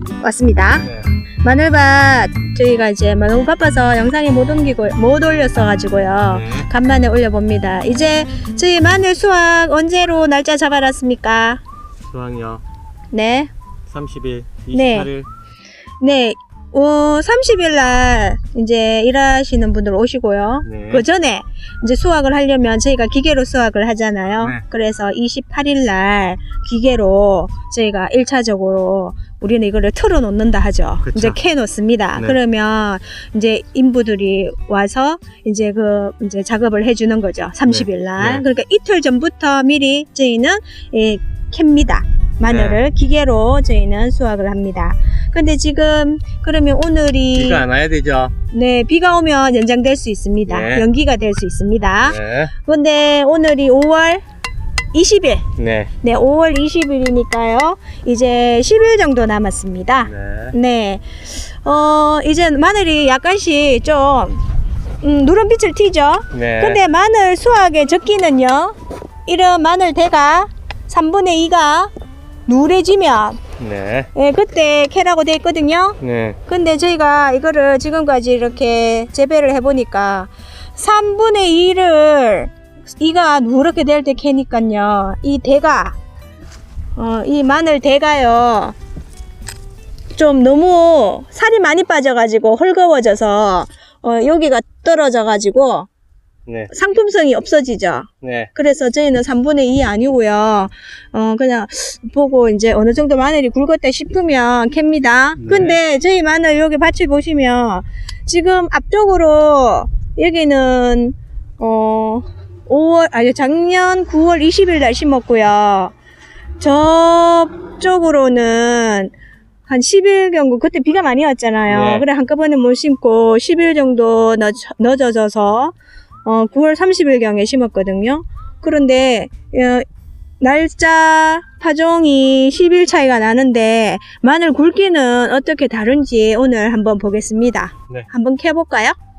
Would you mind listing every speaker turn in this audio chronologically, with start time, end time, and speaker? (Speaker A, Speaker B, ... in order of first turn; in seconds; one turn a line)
Speaker A: 0.2-0.9
Speaker B: 0.8-1.1
Speaker A: 1.4-11.6
Speaker B: 6.3-6.7
Speaker B: 12.1-12.6
Speaker A: 13.1-13.5
Speaker B: 13.9-15.3
Speaker A: 14.7-15.1
Speaker A: 16.0-47.6
Speaker B: 20.6-21.0
Speaker B: 31.0-31.4
Speaker B: 37.7-38.4
Speaker B: 42.4-42.8
Speaker B: 47.3-48.3
Speaker A: 48.5-54.2
Speaker B: 50.5-50.8
Speaker B: 52.0-52.5
Speaker A: 54.9-55.4
Speaker B: 55.6-55.9
Speaker A: 56.0-64.4
Speaker B: 60.1-60.5
Speaker A: 65.0-71.9
Speaker B: 66.3-66.8
Speaker A: 72.5-73.4
Speaker B: 73.6-74.1
Speaker A: 74.1-86.0
Speaker B: 76.0-76.4
Speaker A: 87.0-88.8
Speaker A: 90.2-95.9
Speaker A: 96.7-115.9
Speaker B: 98.2-98.5
Speaker B: 105.4-105.8
Speaker A: 116.6-119.1
Speaker A: 119.7-129.8
Speaker B: 121.7-122.0
Speaker A: 130.4-138.9